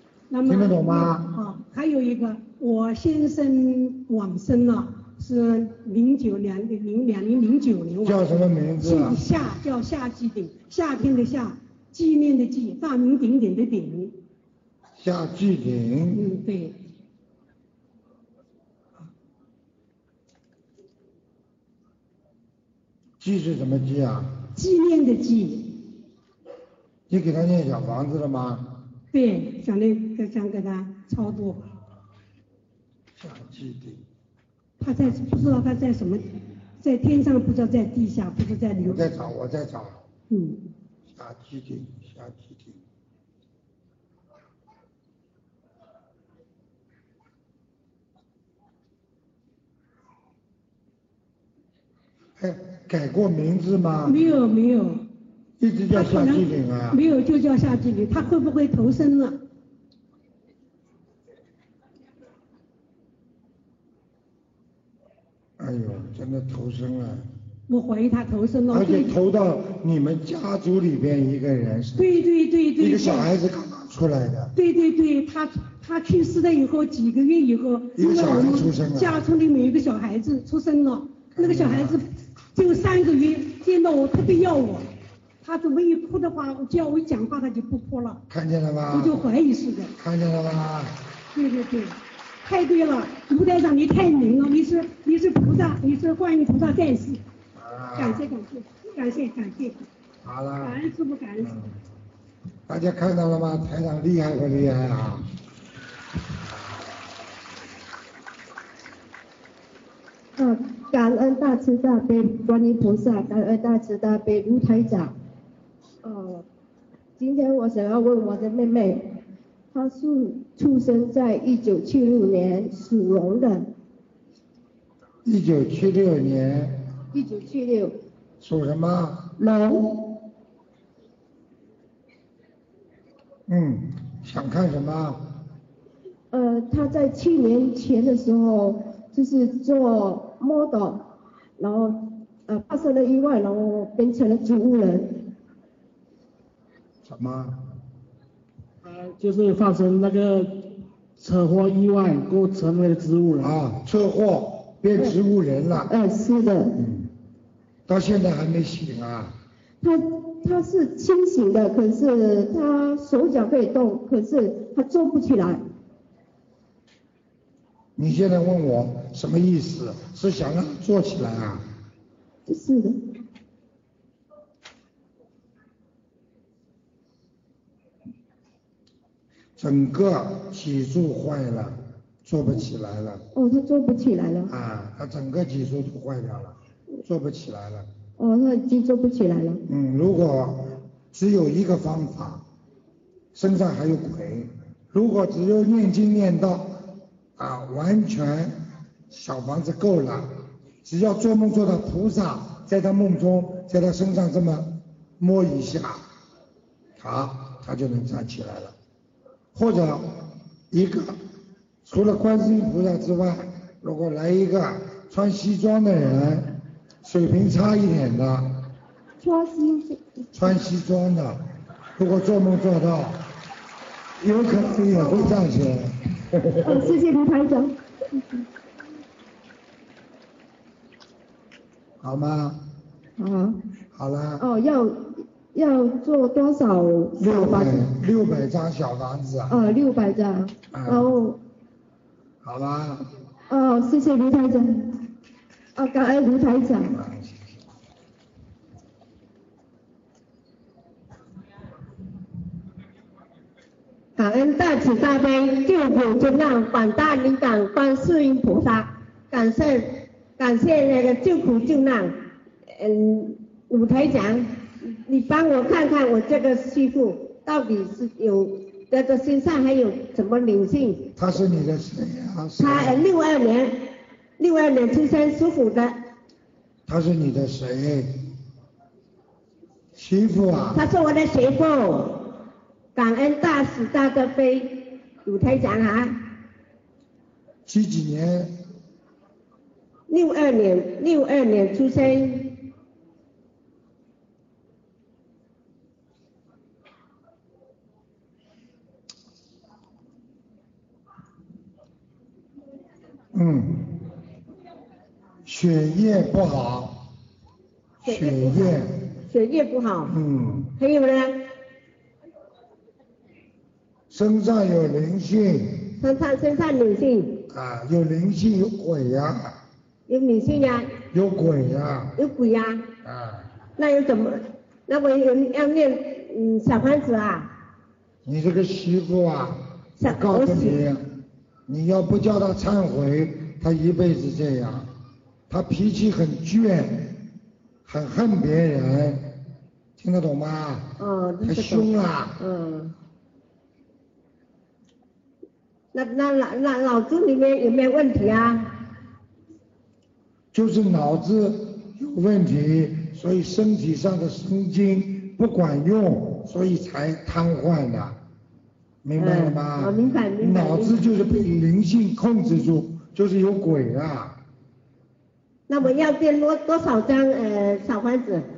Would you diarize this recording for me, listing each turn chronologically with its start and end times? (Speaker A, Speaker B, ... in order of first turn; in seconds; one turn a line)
Speaker A: 0.3-8.3
Speaker B: 0.4-1.3
Speaker B: 8.0-9.2
Speaker A: 8.8-14.1
Speaker B: 15.0-16.2
Speaker A: 16.1-16.7
Speaker B: 23.2-24.4
Speaker A: 24.6-25.8
Speaker B: 27.1-28.8
Speaker A: 29.1-31.7
Speaker B: 33.1-34.0
Speaker A: 34.8-36.2
Speaker B: 35.0-35.3
Speaker A: 36.8-39.1
Speaker B: 38.7-40.0
Speaker A: 40.3-40.6
Speaker B: 41.1-42.8
Speaker B: 52.4-54.2
Speaker A: 54.0-55.0
Speaker B: 55.6-57.0
Speaker A: 55.9-59.4
Speaker B: 65.6-67.3
Speaker A: 67.7-69.1
Speaker B: 68.7-72.2
Speaker A: 72.0-73.3
Speaker B: 72.8-74.5
Speaker A: 74.5-84.9
Speaker B: 78.0-79.2
Speaker B: 81.3-82.0
Speaker A: 85.4-88.2
Speaker B: 88.3-89.2
Speaker A: 88.9-89.9
Speaker B: 90.0-91.0
Speaker A: 91.3-97.2
Speaker B: 97.5-98.2
Speaker A: 98.0-99.8
Speaker B: 100.2-100.8
Speaker A: 100.6-101.5
Speaker B: 101.4-101.8
Speaker B: 102.7-105.3
Speaker C: 110.4-115.1
Speaker C: 116.0-116.4
Speaker C: 117.2-119.1
Speaker C: 119.7-123.7
Speaker B: 125.2-126.8
Speaker C: 127.1-128.0
Speaker B: 128.4-129.3
Speaker C: 129.4-130.0
Speaker B: 133.5-135.2
Speaker C: 136.3-141.1
Speaker C: 141.6-145.3
Speaker B: 147.0-147.6
Speaker D: 148.8-153.6
Speaker B: 153.4-155.9
Speaker C: 155.8-156.8
Speaker B: 156.7-157.1
Speaker B: 157.9-159.4
Speaker C: 159.8-165.6
Speaker B: 167.9-171.7
Speaker C: 172.5-173.0
Speaker B: 179.6-183.2
Speaker C: 183.3-184.5
Speaker B: 184.5-187.9
Speaker C: 188.2-189.6
Speaker B: 189.7-192.4
Speaker B: 193.3-196.8
Speaker B: 197.4-198.6
Speaker B: 199.1-206.0
Speaker B: 207.0-208.7
Speaker B: 209.5-211.2
Speaker B: 211.8-218.6
Speaker C: 219.2-220.6
Speaker B: 220.3-221.4
Speaker B: 222.0-223.2
Speaker B: 224.2-226.9
Speaker C: 224.9-225.3
Speaker C: 226.6-227.8
Speaker B: 232.0-232.6
Speaker C: 233.2-233.6
Speaker B: 233.9-234.4
Speaker C: 234.4-237.8
Speaker B: 237.2-239.6
Speaker C: 239.5-241.4
Speaker B: 240.7-241.1
Speaker B: 242.4-243.0
Speaker C: 243.5-245.0
Speaker C: 245.7-246.9
Speaker B: 246.8-247.6
Speaker E: 254.2-262.1
Speaker E: 262.7-271.1
Speaker B: 271.1-273.0
Speaker E: 272.6-276.0
Speaker B: 276.9-278.3
Speaker B: 279.9-280.8
Speaker E: 280.7-282.3
Speaker E: 282.9-286.2
Speaker B: 287.6-288.5
Speaker E: 290.1-292.6
Speaker B: 303.3-304.0
Speaker B: 305.4-307.0
Speaker B: 308.0-309.0
Speaker E: 308.0-310.1
Speaker B: 310.1-310.7
Speaker E: 310.8-311.5
Speaker B: 314.1-315.9
Speaker E: 316.0-317.4
Speaker B: 317.5-319.6
Speaker E: 320.1-320.9
Speaker B: 321.1-322.1
Speaker E: 322.2-322.9
Speaker B: 323.0-323.5
Speaker E: 323.8-327.5
Speaker B: 328.2-334.9
Speaker E: 330.0-330.8
Speaker B: 335.5-337.2
Speaker B: 337.8-339.4
Speaker B: 340.0-342.4
Speaker E: 341.0-342.9
Speaker E: 345.9-348.7
Speaker B: 350.5-358.2
Speaker B: 359.0-364.4
Speaker E: 359.2-361.0
Speaker E: 365.7-368.4